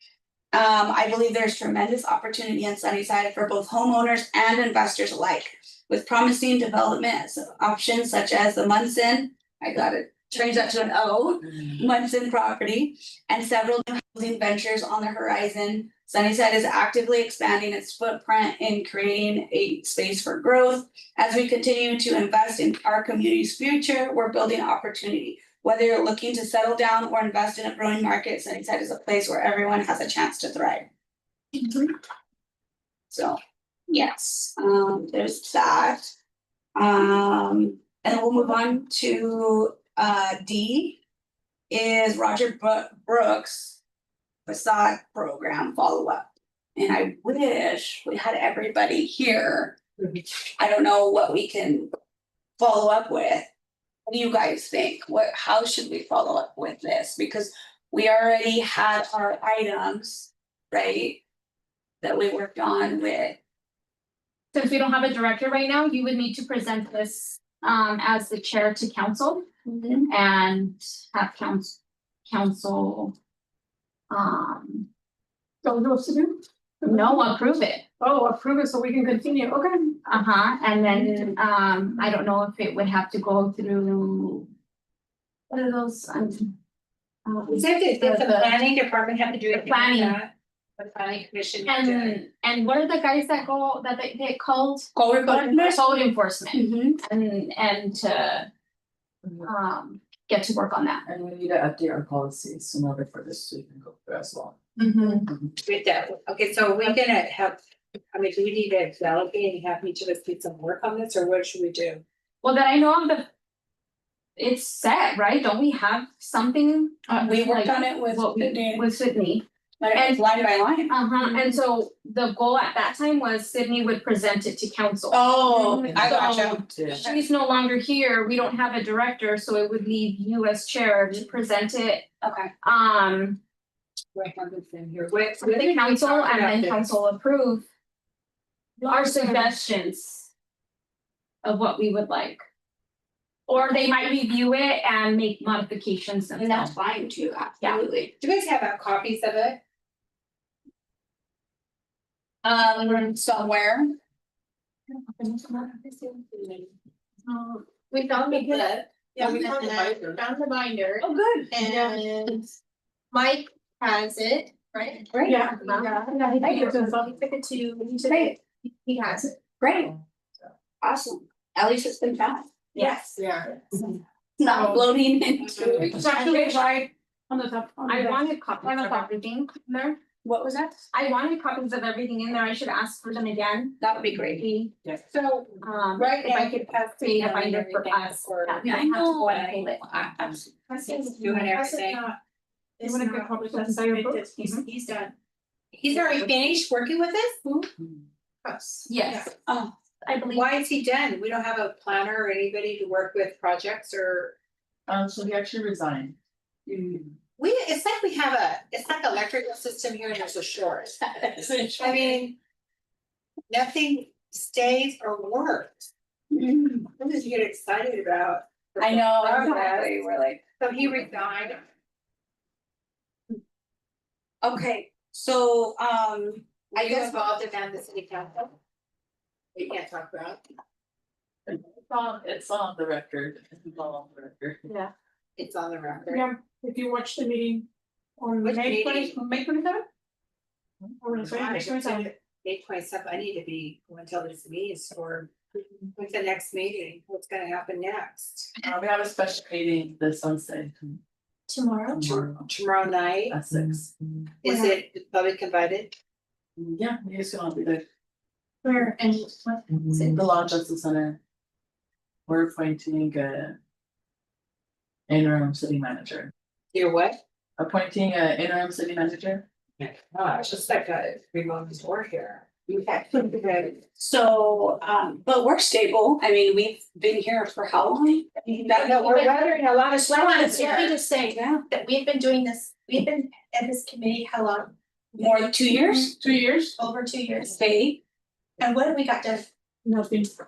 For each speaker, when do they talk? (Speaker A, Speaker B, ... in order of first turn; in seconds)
Speaker A: 0.5-30.9, 33.1-36.1, 36.7-41.0, 41.7-43.8, 44.5-49.8, 50.6-51.9, 52.6-53.5, 54.0-61.2, 62.0-63.4, 69.7-70.1, 94.9-95.8, 96.5-97.0, 117.1-118.9, 119.8-121.4, 125.1-127.1, 132.2-132.5, 146.4-148.1, 152.4-153.9, 161.0-161.5, 165.1-165.5, 168.0-168.4, 169.6-169.9, 170.8-172.5, 174.4-176.3, 180.2-180.8, 183.8-184.4, 188.6-189.3, 199.4-199.7, 206.7-207.1, 216.3-216.8, 218.8-220.4, 224.4-227.4, 272.7-273.0, 273.9-279.3, 281.3-281.6, 285.1-286.1, 287.4-288.0
Speaker B: 64.5-69.5, 70.1-73.1, 74.1-74.9, 76.8-77.8, 80.0-84.5, 85.5-86.5, 87.2-88.5, 89.5-90.2, 91.6-98.5, 99.4-101.0, 112.4-113.3, 114.4-120.2, 120.9-126.4, 126.9-133.4, 135.4-137.7, 138.8-140.3, 141.4-142.4, 143.5-146.7, 165.6-165.9, 176.1-176.5, 177.9-180.0, 180.9-184.8, 185.6-191.1, 193.5-194.6, 198.8-199.3, 200.0-200.5
Speaker C: 75.6-77.3, 78.0-80.0, 138.9-139.4, 161.6-162.0, 165.3-167.2, 174.5-174.8, 175.8-179.1, 192.8-194.6, 234.6-234.9, 236.1-237.7, 238.2-239.8, 241.0-242.1, 285.7-286.8, 289.8-290.3
Speaker D: 87.5-92.2, 105.6-107.6, 108.1-112.0, 125.4-127.2, 134.1-136.9, 148.2-149.6, 155.9-156.5, 184.9-189.7, 190.5-192.1, 195.7-197.4, 200.3-204.3, 207.4-212.4, 213.5-215.9, 216.9-220.0, 220.6-221.6, 226.7-228.5, 229.5-230.4, 235.4-236.3, 238.4-239.2, 241.2-248.5, 252.0-253.8, 254.4-255.9, 266.7-267.2, 269.8-273.8, 278.8-280.9
Speaker E: 101.0-104.6, 105.2-105.5, 125.7-127.0, 159.2-160.2, 204.9-206.2, 231.4-234.6, 248.6-251.0, 251.9-252.5, 253.3-254.3, 256.6-257.8, 259.7-261.2, 262.3-263.6, 265.1-266.3, 267.6-269.4
Speaker F: 157.3-162.4, 163.1-169.4, 172.8-173.5, 190.9-192.2, 192.8-195.1, 195.9-196.2, 198.4-199.3, 251.5-252.1, 254.4-254.8, 258.6-260.2, 278.9-284.7, 286.8-287.6, 288.6-289.5